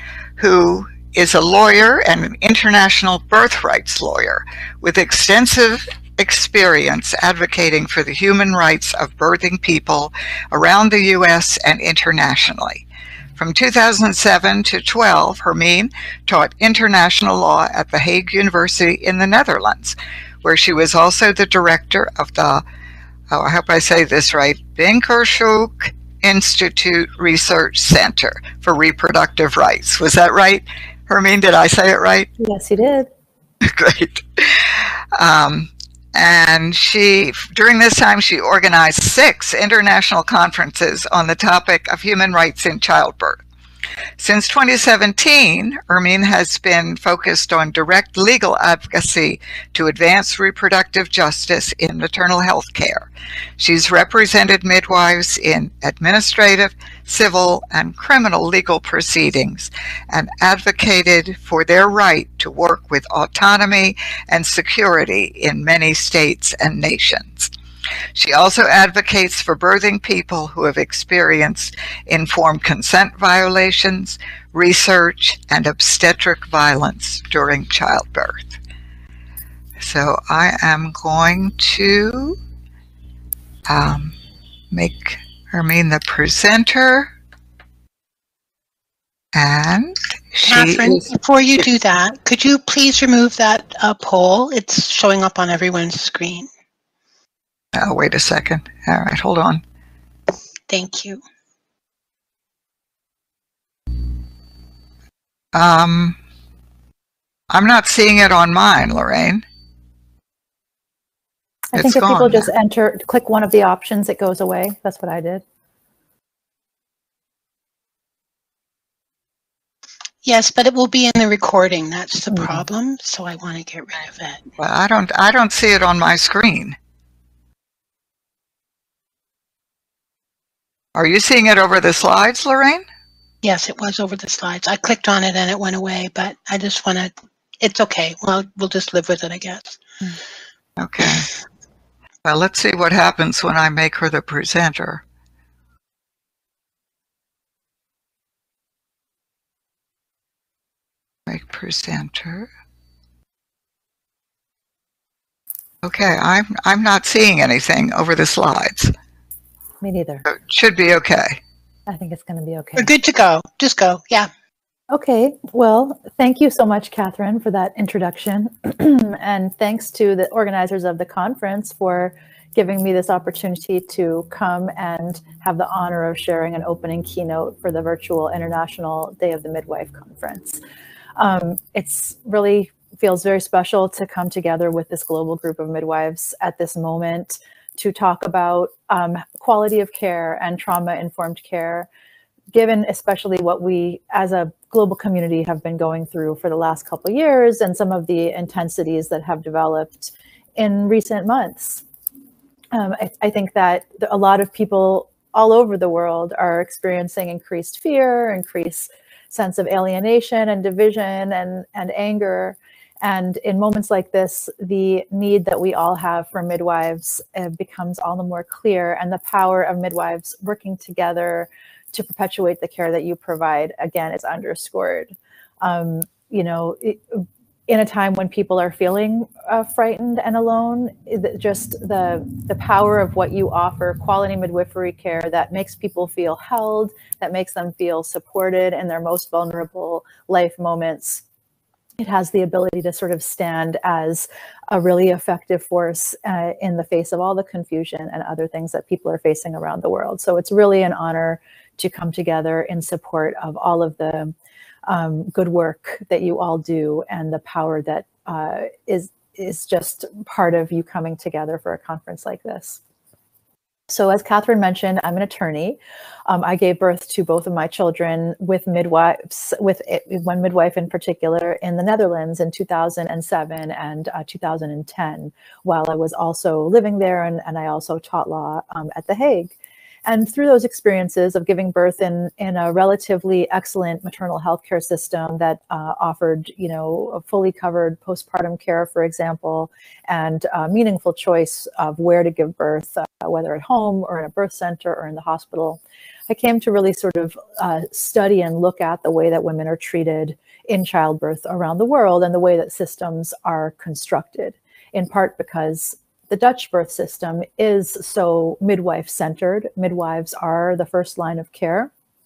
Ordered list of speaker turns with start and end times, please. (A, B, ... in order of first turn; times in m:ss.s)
0:00.4-0:12.8 A
0:13.4-0:22.6 A
0:23.3-0:32.3 A
0:32.4-0:33.1 B
0:33.6-0:43.4 A
0:44.2-1:07.5 A
1:08.1-1:18.6 A
1:19.8-1:22.4 A
1:23.7-1:24.1 A
1:24.7-1:27.1 A
1:29.3-1:31.1 A
1:30.4-1:36.5 C
1:37.8-1:39.6 A
1:40.7-1:41.2 C
1:45.5-1:46.2 A
1:47.5-1:49.4 A
1:51.7-1:55.4 B
1:51.8-1:52.5 A
2:00.2-2:04.5 C
2:04.6-2:06.8 A
2:11.0-2:12.8 A
2:13.4-2:19.8 C
2:20.8-2:21.3 A
2:22.2-2:25.0 A
2:31.3-2:32.5 A
2:35.8-2:38.9 A
2:39.8-2:40.2 B
2:40.3-2:41.4 A
2:41.9-2:42.9 B
2:42.8-2:44.3 C
2:44.9-3:00.6 B
3:01.2-3:11.9 B
3:12.5-3:21.8 B
3:22.7-4:01.2 B
4:02.0-4:14.3 B
4:14.9-4:22.8 B
4:23.9-4:39.5 B
4:40.0-5:11.9 B